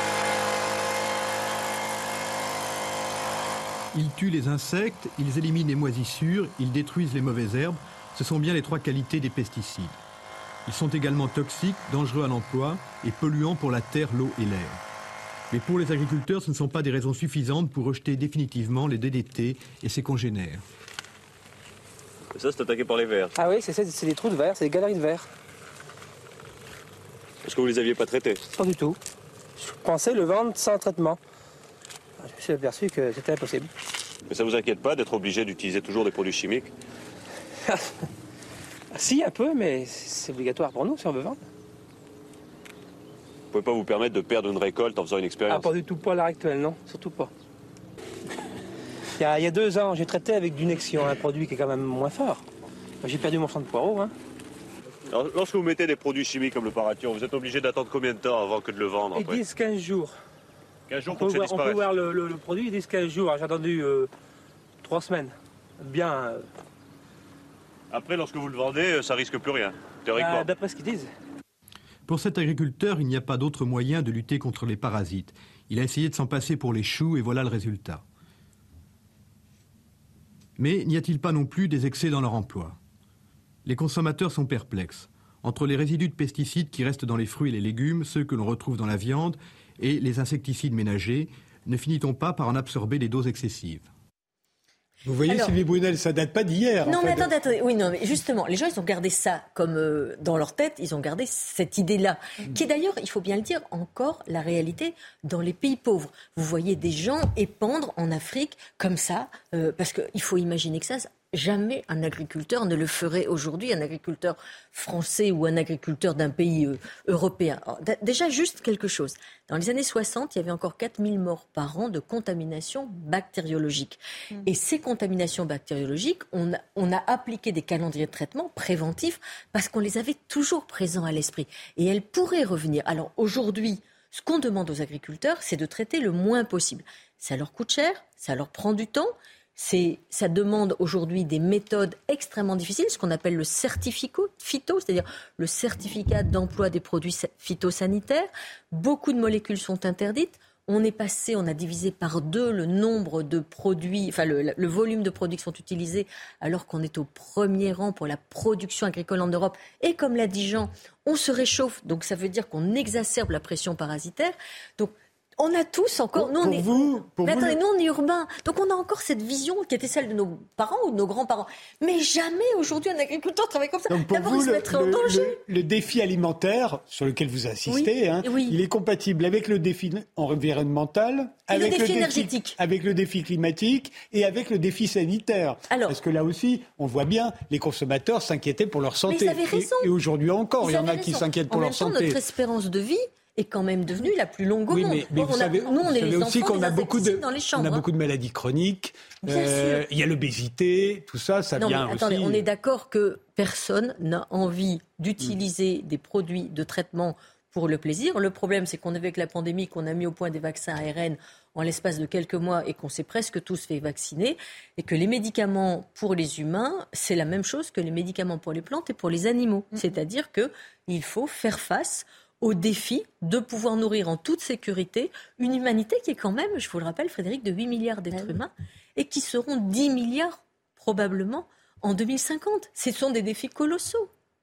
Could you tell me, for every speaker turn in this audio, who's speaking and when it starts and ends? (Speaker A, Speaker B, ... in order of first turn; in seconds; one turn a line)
Speaker A: 3.9-10.0
Speaker A: 10.7-14.8
Speaker A: 15.5-20.6
Speaker B: 22.3-23.3
Speaker C: 23.4-25.3
Speaker B: 27.4-28.4
Speaker C: 28.6-29.0
Speaker C: 29.6-31.2
Speaker C: 32.2-33.7
Speaker B: 34.3-36.7
Speaker C: 38.9-41.4
Speaker B: 43.5-45.7
Speaker C: 45.5-47.3
Speaker C: 49.2-52.4
Speaker C: 53.0-54.1
Speaker B: 55.1-59.4
Speaker C: 59.1-60.1
Speaker B: 60.9-61.8
Speaker C: 61.0-64.1
Speaker C: 64.8-66.4
Speaker B: 67.9-70.5
Speaker C: 70.1-71.1
Speaker A: 72.1-78.0
Speaker A: 80.6-82.8
Speaker A: 83.6-93.9
Speaker D: 95.0-97.3
Speaker E: 95.3-95.5
Speaker E: 96.8-175.4
Speaker D: 166.2-167.6
Speaker D: 173.9-192.2
Speaker E: 177.7-178.6
Speaker E: 181.5-182.6
Speaker E: 185.7-185.9
Speaker E: 189.1-189.9
Speaker E: 190.6-197.8
Speaker D: 194.7-202.4
Speaker E: 199.2-199.8
Speaker E: 201.6-234.1